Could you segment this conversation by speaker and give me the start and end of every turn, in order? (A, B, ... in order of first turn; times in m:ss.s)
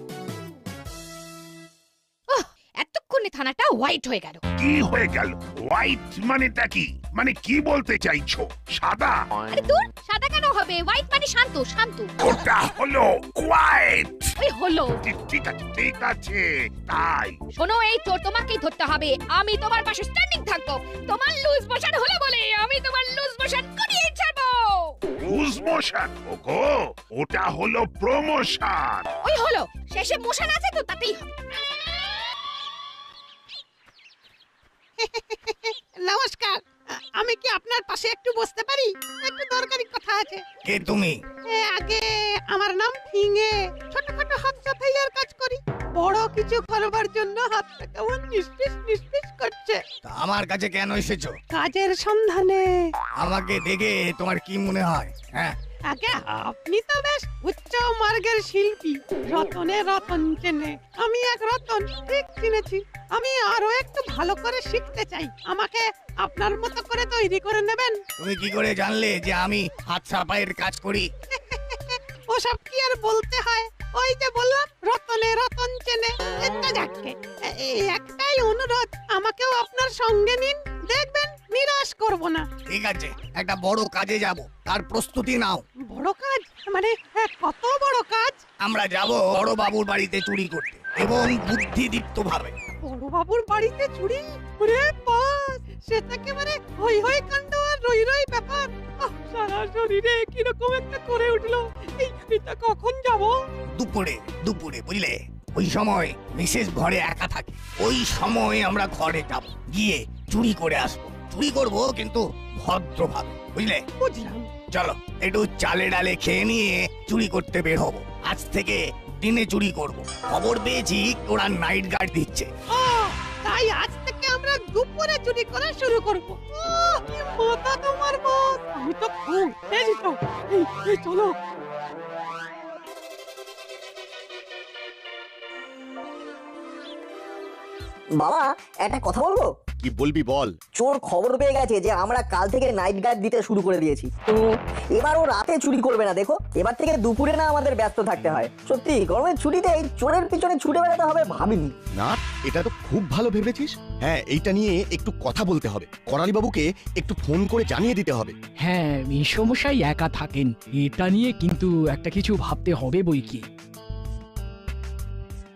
0:02.3-0:04.4 A
0:04.6-0:09.2 B
0:09.5-0:12.1 A
0:12.2-0:14.3 B
0:14.4-0:15.0 A
0:15.0-0:17.4 B
0:17.5-0:25.0 A
0:25.3-0:29.1 B
0:29.2-0:31.2 A
0:35.0-0:36.6 C
0:37.2-0:40.4 C
0:40.6-0:41.2 D
0:41.4-0:49.8 C
0:50.0-0:51.3 D
0:51.5-0:52.6 C
0:53.2-0:55.6 D
0:55.9-1:08.0 C
1:08.2-1:11.1 D
1:11.5-1:22.4 C
1:22.7-1:25.6 D
1:25.9-1:28.4 C
1:28.6-1:32.5 D
1:32.8-1:43.3 C
1:43.7-1:53.8 D
1:54.0-1:54.5 C
1:54.7-2:02.5 D
2:02.7-2:11.3 C
2:18.2-2:19.5 E
2:19.8-2:20.5 F
2:20.8-2:31.7 E
2:32.0-2:38.3 F
2:38.6-2:43.4 G